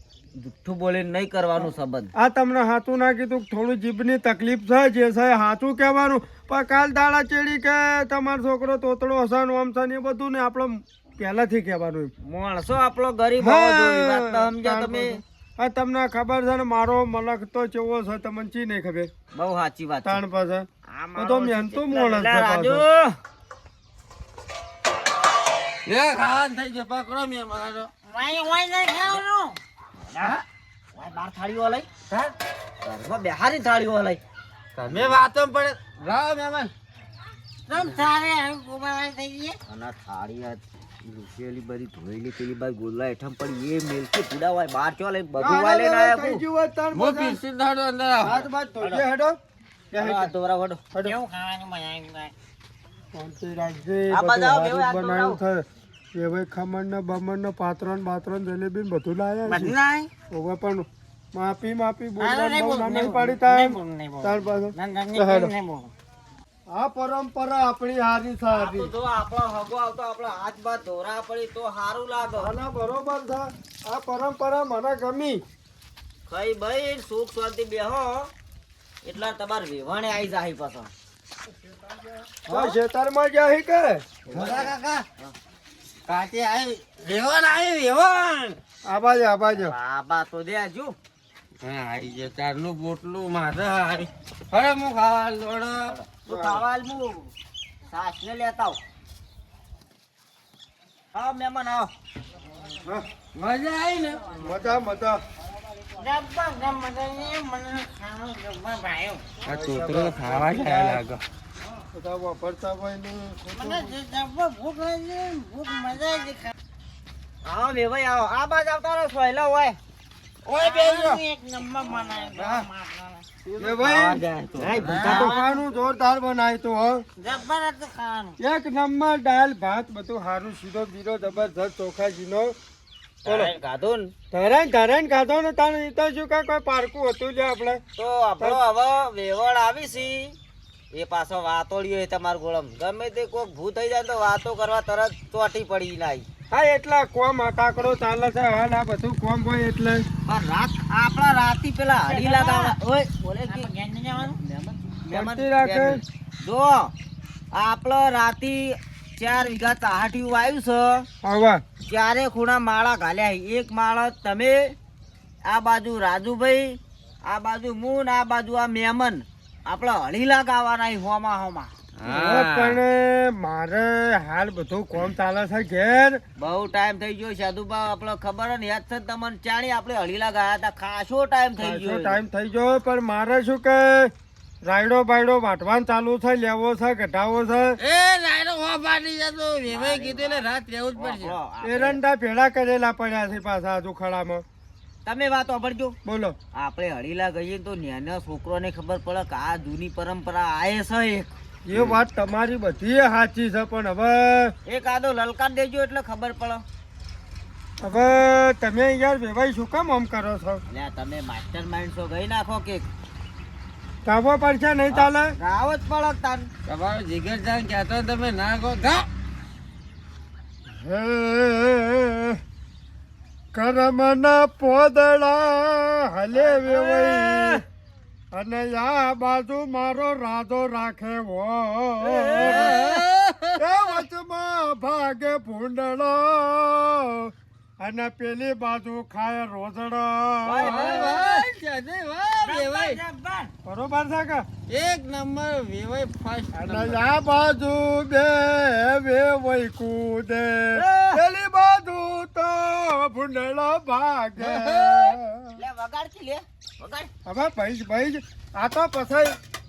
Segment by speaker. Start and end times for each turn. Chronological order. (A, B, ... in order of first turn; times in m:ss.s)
0:00.4-0:02.1 A
0:02.1-0:12.1 B
0:12.2-0:15.2 A
0:13.4-0:19.1 B
0:19.3-0:20.2 A
0:20.0-0:22.8 B
0:20.9-0:23.2 A
0:25.8-0:27.9 C
0:28.1-0:29.6 D
0:30.0-0:30.3 A
0:30.9-0:31.9 A
0:32.8-0:34.2 A
0:34.7-0:36.7 C
0:34.9-0:35.2 A
0:37.7-0:39.6 D
0:39.7-0:46.4 A
0:45.4-0:47.4 B
0:46.9-0:48.4 C
0:48.2-0:49.4 B
0:48.3-0:49.0 A
0:49.9-0:50.3 B
0:50.0-0:50.8 A
0:51.0-0:52.3 D
0:53.1-0:59.8 B
0:54.1-0:55.4 A
0:59.5-1:00.1 D
1:00.3-1:05.5 B
1:02.2-1:05.9 D
1:06.7-1:08.9 B
1:08.5-1:12.5 A
1:12.4-1:15.4 B
1:16.3-1:18.3 A
1:19.0-1:20.9 A
1:22.5-1:24.6 B
1:22.5-1:22.8 A
1:24.3-1:25.3 A
1:24.3-1:25.0 C
1:26.1-1:28.6 C
1:28.9-1:29.7 B
1:29.5-1:31.0 A
1:31.6-1:35.9 C
1:35.9-1:37.3 A
1:36.3-1:36.6 B
1:37.9-1:38.8 A
1:41.1-1:41.9 A
1:43.3-1:44.3 C
1:44.4-1:45.2 B
1:45.9-1:49.2 D
1:49.4-1:51.2 C
1:49.5-1:51.0 B
1:51.9-1:54.0 B
1:53.6-1:56.5 D
1:57.4-1:59.8 A
2:00.4-2:01.2 C
2:00.6-2:03.2 D
2:02.3-2:02.7 C
2:03.6-2:07.0 B
2:03.6-2:05.2 C
2:04.6-2:05.3 A
2:04.8-2:05.6 D
2:07.2-2:08.4 D
2:08.4-2:12.5 B
2:13.2-2:14.1 A
2:13.2-2:13.5 B
2:14.3-2:17.8 B
2:18.0-2:20.4 A
2:20.9-2:26.3 A
2:26.5-2:30.0 B
2:30.3-2:36.9 A
2:32.0-2:32.7 D
2:33.4-2:34.4 D
2:35.1-2:36.0 B
2:37.5-2:41.0 A
2:41.2-2:41.6 B
2:41.8-2:44.7 A
2:45.4-2:51.7 A
2:52.0-2:52.8 C
2:52.1-2:56.2 B
2:56.4-3:02.2 A
3:01.6-3:04.1 B
3:04.6-3:07.8 B
3:07.8-3:11.4 C
3:09.7-3:10.4 A
3:11.0-3:12.0 A
3:11.6-3:14.4 B
3:15.0-3:16.0 A
3:16.0-3:16.4 B
3:16.5-3:21.3 A
3:21.6-3:24.5 B
3:21.7-3:22.0 C
3:24.7-3:26.6 A
3:27.8-3:30.6 B
3:30.7-3:32.8 A
3:34.0-3:35.3 B
3:34.9-3:36.5 A
3:36.6-3:39.1 C
3:40.7-3:42.4 B
3:43.5-3:47.6 B
3:46.3-3:47.6 A
3:48.3-3:52.8 B
3:52.1-3:52.7 A
3:52.4-3:54.0 C
3:53.6-4:01.2 B
4:00.4-4:01.4 A
4:00.6-4:03.0 C
4:02.4-4:03.5 D
4:03.6-4:04.4 B
4:04.7-4:07.0 C
4:06.5-4:15.6 B
4:10.8-4:11.2 D
4:14.4-4:15.2 C
4:15.6-4:17.1 A
4:17.2-4:19.3 B